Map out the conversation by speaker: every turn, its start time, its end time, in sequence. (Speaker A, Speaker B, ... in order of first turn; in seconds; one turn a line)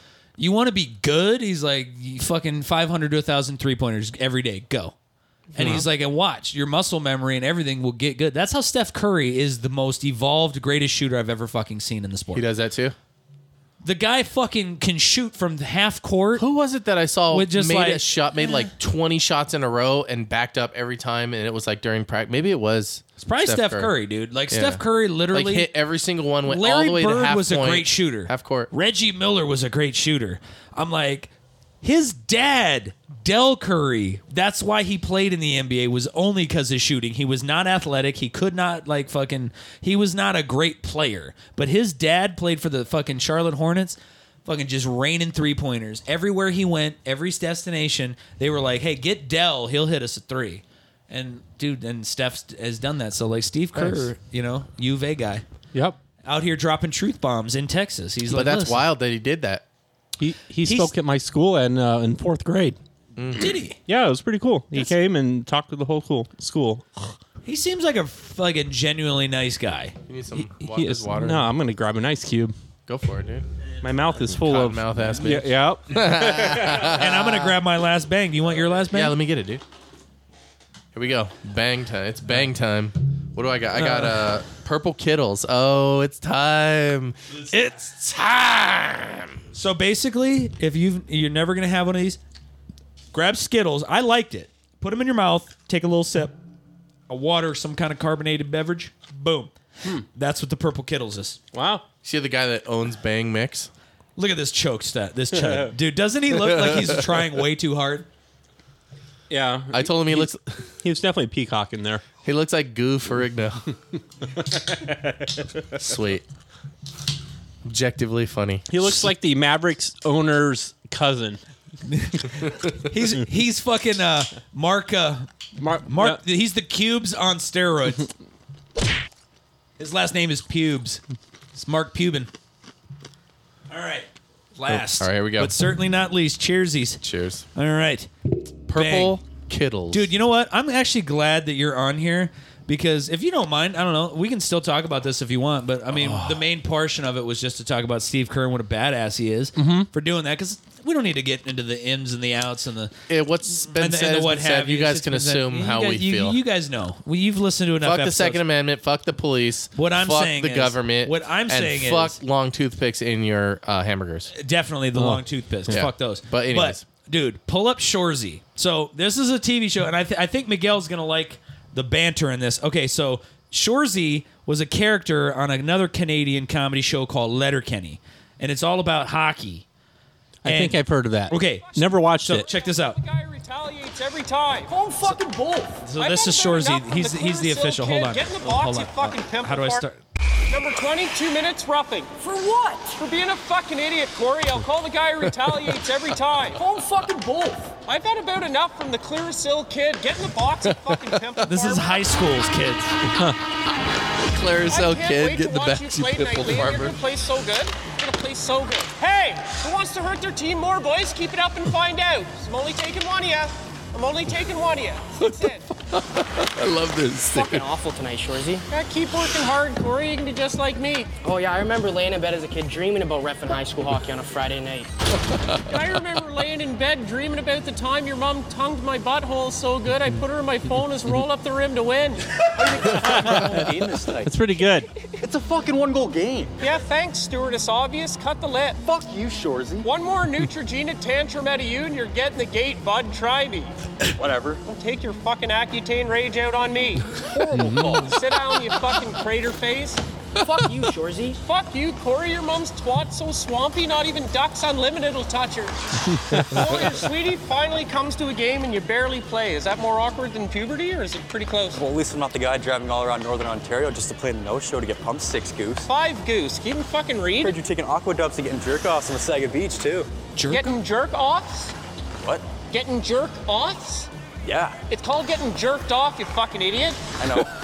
Speaker A: 0.4-4.9
Speaker B: 5.5-5.9
Speaker A: 5.5-12.5
Speaker C: 12.3-13.0
Speaker A: 13.8-16.4
Speaker C: 16.4-23.9
Speaker A: 17.3-18.7
Speaker A: 23.2-25.7
Speaker C: 24.5-28.7
Speaker A: 26.5-31.3
Speaker A: 31.8-55.4
Speaker A: 56.2-58.9
Speaker C: 58.3-59.6
Speaker B: 60.2-62.8
Speaker A: 60.6-60.9
Speaker C: 63.2-63.6
Speaker A: 63.4-63.8
Speaker B: 63.9-67.1
Speaker A: 67.5-70.0
Speaker C: 70.1-71.5
Speaker B: 70.3-72.5
Speaker C: 72.9-73.5
Speaker B: 73.8-76.9
Speaker C: 74.2-77.6
Speaker A: 76.7-79.2
Speaker C: 78.9-79.6
Speaker C: 80.9-89.4
Speaker A: 83.8-84.2
Speaker A: 89.5-92.2
Speaker A: 93.1-96.4
Speaker A: 97.1-101.4
Speaker B: 101.5-101.8
Speaker C: 102.0-103.7
Speaker A: 104.2-108.1
Speaker B: 105.3-105.7
Speaker C: 106.4-107.1
Speaker B: 109.3-110.3
Speaker C: 109.7-110.7
Speaker B: 110.8-112.0
Speaker C: 112.2-113.6
Speaker B: 114.6-115.1
Speaker C: 115.8-116.2
Speaker C: 117.7-118.8
Speaker B: 118.7-121.4
Speaker A: 121.9-125.3
Speaker B: 125.6-126.2
Speaker A: 125.9-128.1
Speaker A: 129.8-131.0
Speaker A: 131.6-132.3
Speaker A: 133.7-137.0
Speaker C: 134.7-135.5
Speaker C: 137.0-137.4
Speaker A: 137.6-138.1
Speaker C: 138.7-140.1
Speaker A: 138.7-139.2
Speaker A: 139.9-152.9
Speaker C: 145.9-146.4
Speaker B: 149.6-149.9
Speaker C: 153.1-156.4
Speaker A: 153.5-158.4
Speaker C: 157.8-164.3
Speaker A: 159.8-162.2
Speaker A: 164.3-179.7
Speaker B: 164.9-165.9
Speaker C: 165.7-166.8
Speaker B: 180.4-182.5
Speaker A: 180.5-183.0
Speaker D: 181.4-184.8
Speaker E: 184.7-185.8
Speaker A: 185.8-190.0
Speaker D: 186.0-189.8
Speaker D: 190.5-192.1
Speaker E: 192.2-193.0
Speaker D: 193.0-196.6
Speaker E: 196.6-197.7
Speaker D: 197.9-202.1
Speaker C: 200.8-201.3
Speaker A: 201.4-203.0
Speaker B: 203.1-203.4
Speaker C: 204.2-207.0
Speaker D: 204.7-215.7
Speaker C: 215.2-217.7
Speaker E: 217.3-218.7
Speaker D: 218.7-221.1
Speaker E: 221.2-224.9
Speaker C: 225.3-225.6
Speaker D: 225.7-232.9
Speaker F: 232.4-234.3
Speaker B: 233.0-234.9
Speaker F: 235.2-236.6
Speaker D: 236.6-238.8
Speaker F: 238.8-239.9
Speaker D: 239.8-243.8
Speaker F: 244.2-244.6
Speaker D: 244.7-250.0
Speaker B: 247.5-248.1
Speaker F: 247.6-248.0
Speaker E: 250.4-251.4
Speaker D: 251.4-255.8
Speaker B: 256.2-256.8
Speaker D: 256.5-261.8
Speaker F: 261.7-265.9
Speaker D: 265.8-267.6
Speaker F: 267.4-270.1
Speaker A: 270.4-270.8
Speaker D: 270.5-271.7
Speaker F: 272.2-272.4
Speaker D: 272.7-274.1
Speaker F: 274.4-274.8
Speaker D: 274.9-277.2
Speaker F: 277.2-277.5